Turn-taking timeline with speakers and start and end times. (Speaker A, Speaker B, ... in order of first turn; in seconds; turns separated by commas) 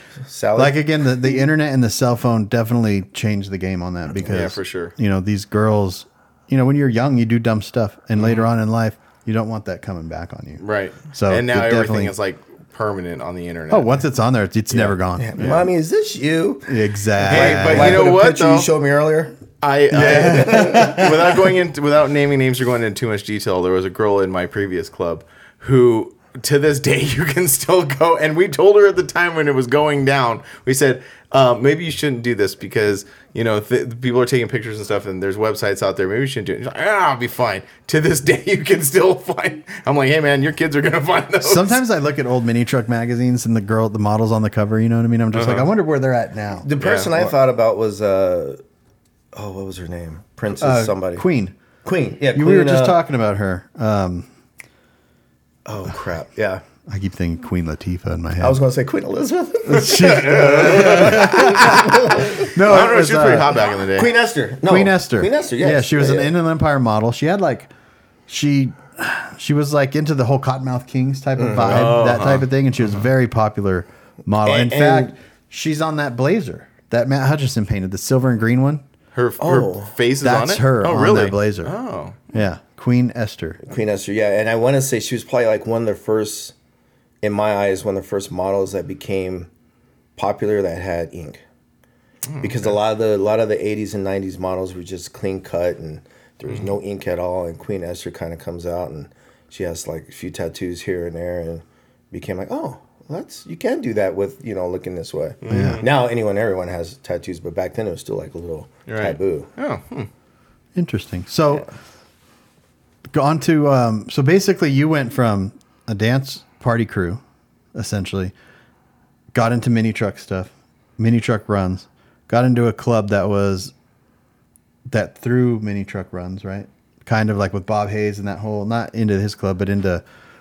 Speaker A: 0.2-0.8, Speaker B: 0.6-12.1, Speaker C: 4.2-4.9, Speaker C: 8.2-8.5, Speaker C: 10.6-14.0, Speaker B: 13.7-15.7, Speaker A: 14.7-19.3, Speaker B: 16.7-18.0, Speaker C: 17.2-18.7, Speaker C: 19.6-41.8, Speaker A: 19.9-21.4, Speaker B: 20.0-21.1, Speaker B: 41.4-46.7, Speaker C: 45.3-45.7, Speaker A: 46.6-48.6, Speaker C: 46.8-47.1, Speaker A: 49.3-51.2, Speaker B: 50.6-51.5, Speaker A: 51.8-53.0, Speaker B: 52.3-54.3, Speaker A: 55.6-56.6, Speaker B: 56.9-58.6, Speaker A: 58.4-62.5, Speaker B: 59.6-63.6, Speaker C: 59.8-64.1, Speaker A: 63.9-66.3, Speaker B: 64.7-67.7, Speaker B: 68.3-78.8, Speaker A: 71.4-71.9, Speaker C: 71.6-73.0, Speaker A: 74.4-75.2, Speaker C: 79.1-82.3, Speaker A: 79.4-79.9, Speaker B: 80.2-81.7, Speaker B: 82.3-83.6, Speaker A: 83.6-86.5, Speaker A: 87.2-89.5, Speaker A: 90.2-91.4, Speaker C: 92.3-92.7, Speaker A: 92.4-109.5, Speaker C: 105.4-105.9, Speaker B: 105.5-105.8, Speaker C: 108.9-110.1, Speaker B: 110.8-111.7, Speaker B: 113.1-117.2, Speaker B: 117.7-118.3, Speaker B: 119.3-123.7, Speaker B: 124.9-130.0